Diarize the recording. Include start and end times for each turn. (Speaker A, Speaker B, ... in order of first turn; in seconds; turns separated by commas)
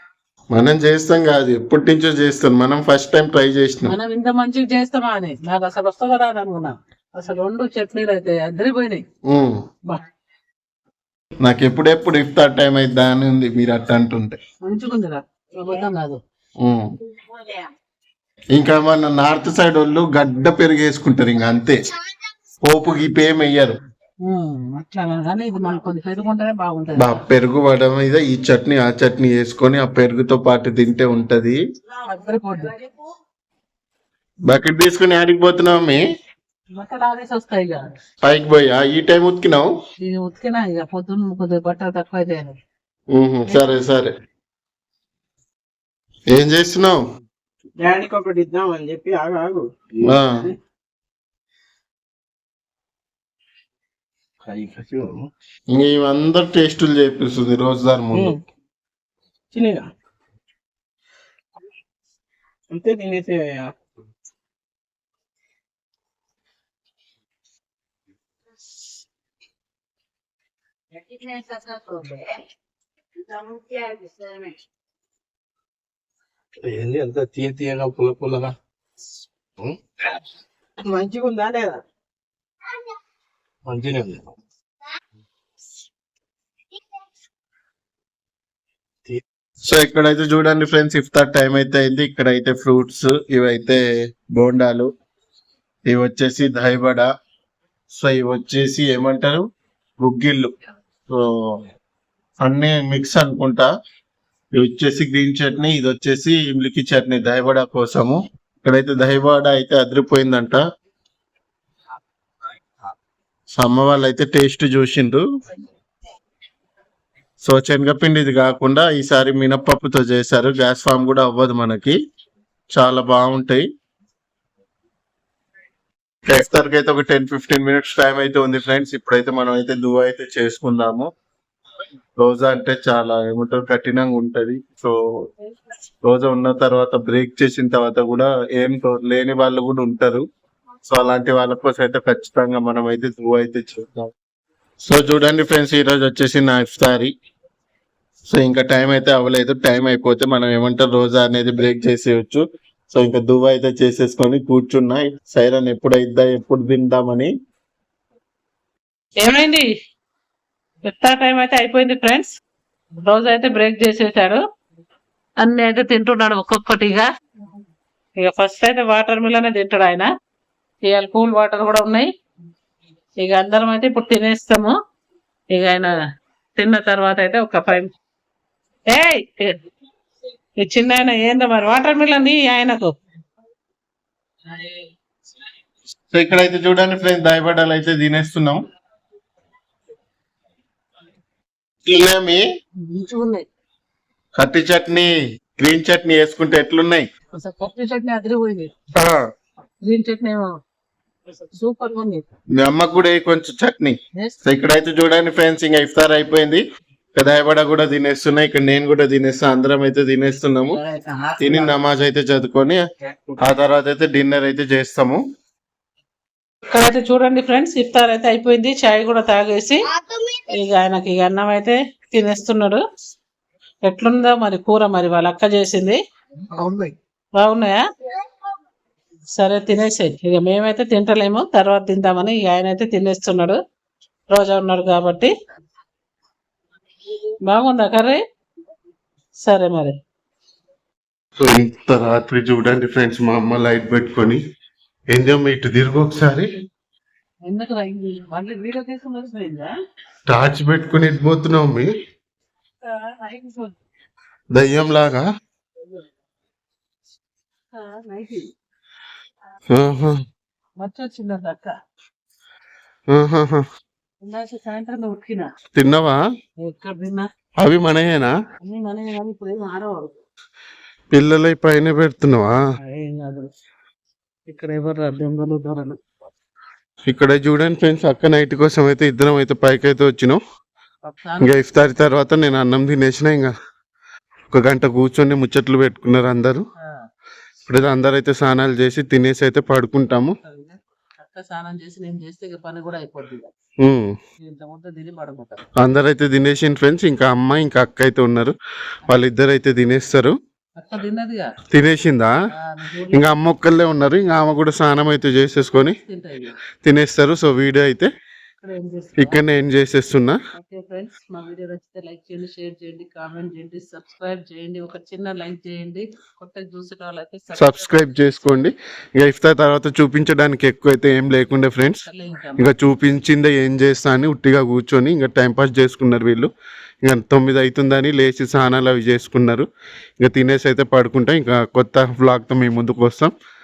Speaker A: 0.5-4.0, Speaker B: 3.9-9.0, Speaker A: 9.3-9.6, Speaker A: 11.4-14.4, Speaker B: 14.6-16.2, Speaker A: 16.6-16.9, Speaker A: 18.5-21.8, Speaker A: 22.6-23.7, Speaker B: 24.3-27.2, Speaker A: 27.0-31.6, Speaker B: 32.0-32.9, Speaker A: 34.5-36.0, Speaker B: 36.8-37.9, Speaker A: 38.2-39.7, Speaker B: 40.0-42.6, Speaker A: 43.1-44.1, Speaker B: 43.5-43.8, Speaker A: 46.3-47.0, Speaker C: 47.8-49.8, Speaker A: 50.0-50.4, Speaker D: 54.4-55.3, Speaker A: 55.7-58.4, Speaker C: 59.5-59.9, Speaker C: 62.7-63.7, Speaker B: 71.1-72.3, Speaker B: 73.5-74.5, Speaker D: 76.6-78.5, Speaker C: 80.8-81.8, Speaker D: 83.7-84.3, Speaker A: 89.7-94.9, Speaker A: 95.9-97.1, Speaker A: 97.9-99.5, Speaker A: 100.0-100.5, Speaker A: 101.1-101.6, Speaker A: 102.4-103.7, Speaker A: 104.5-110.6, Speaker A: 113.5-115.2, Speaker A: 117.4-122.0, Speaker A: 122.7-123.7, Speaker A: 126.3-131.1, Speaker A: 132.2-134.9, Speaker A: 136.0-140.2, Speaker A: 140.9-144.1, Speaker A: 144.8-147.1, Speaker A: 148.3-157.3, Speaker B: 159.2-159.7, Speaker B: 160.8-162.3, Speaker B: 163.0-164.4, Speaker B: 165.4-167.1, Speaker B: 168.2-170.1, Speaker B: 170.8-172.1, Speaker B: 173.2-174.8, Speaker B: 175.5-175.9, Speaker B: 176.6-177.9, Speaker B: 178.9-179.6, Speaker B: 180.6-182.9, Speaker B: 184.6-184.8, Speaker A: 186.1-188.6, Speaker A: 191.9-192.4, Speaker B: 192.8-193.5, Speaker A: 194.3-197.1, Speaker B: 197.4-198.7, Speaker B: 199.8-200.5, Speaker B: 201.5-202.2, Speaker A: 202.6-206.6, Speaker A: 207.2-210.8, Speaker B: 210.7-211.8, Speaker A: 211.4-212.8, Speaker A: 213.4-215.2, Speaker B: 216.7-219.8, Speaker B: 220.5-222.8, Speaker B: 223.8-226.0, Speaker B: 227.4-227.8, Speaker B: 229.4-233.6, Speaker B: 234.3-235.3, Speaker B: 237.5-238.2, Speaker B: 239.4-240.0, Speaker A: 241.4-244.4, Speaker A: 245.1-246.5, Speaker B: 247.4-249.7, Speaker A: 250.3-251.9, Speaker B: 252.8-253.7, Speaker A: 254.5-255.3, Speaker B: 257.7-258.5, Speaker A: 259.7-260.2, Speaker B: 260.8-261.8, Speaker A: 263.1-263.6, Speaker B: 264.2-265.5, Speaker A: 265.8-266.2, Speaker B: 266.6-267.2, Speaker A: 267.6-268.4, Speaker B: 268.6-270.1, Speaker A: 271.1-272.5, Speaker B: 272.8-273.5, Speaker B: 274.5-276.0, Speaker A: 277.1-280.4, Speaker B: 281.0-281.6, Speaker A: 281.4-283.5, Speaker A: 284.5-286.6, Speaker A: 287.7-290.4, Speaker B: 290.4-293.5, Speaker A: 293.8-294.1, Speaker B: 294.4-295.6, Speaker A: 295.8-298.6, Speaker A: 299.1-300.4, Speaker B: 300.8-301.5, Speaker A: 301.7-302.3, Speaker B: 302.6-303.3, Speaker A: 303.1-306.0, Speaker B: 305.8-306.6, Speaker A: 306.8-308.1, Speaker B: 308.6-309.4, Speaker A: 309.2-310.4, Speaker B: 310.5-317.9, Speaker A: 317.6-322.0, Speaker B: 322.1-322.7, Speaker A: 322.6-326.5, Speaker A: 327.0-329.7, Speaker A: 330.2-333.3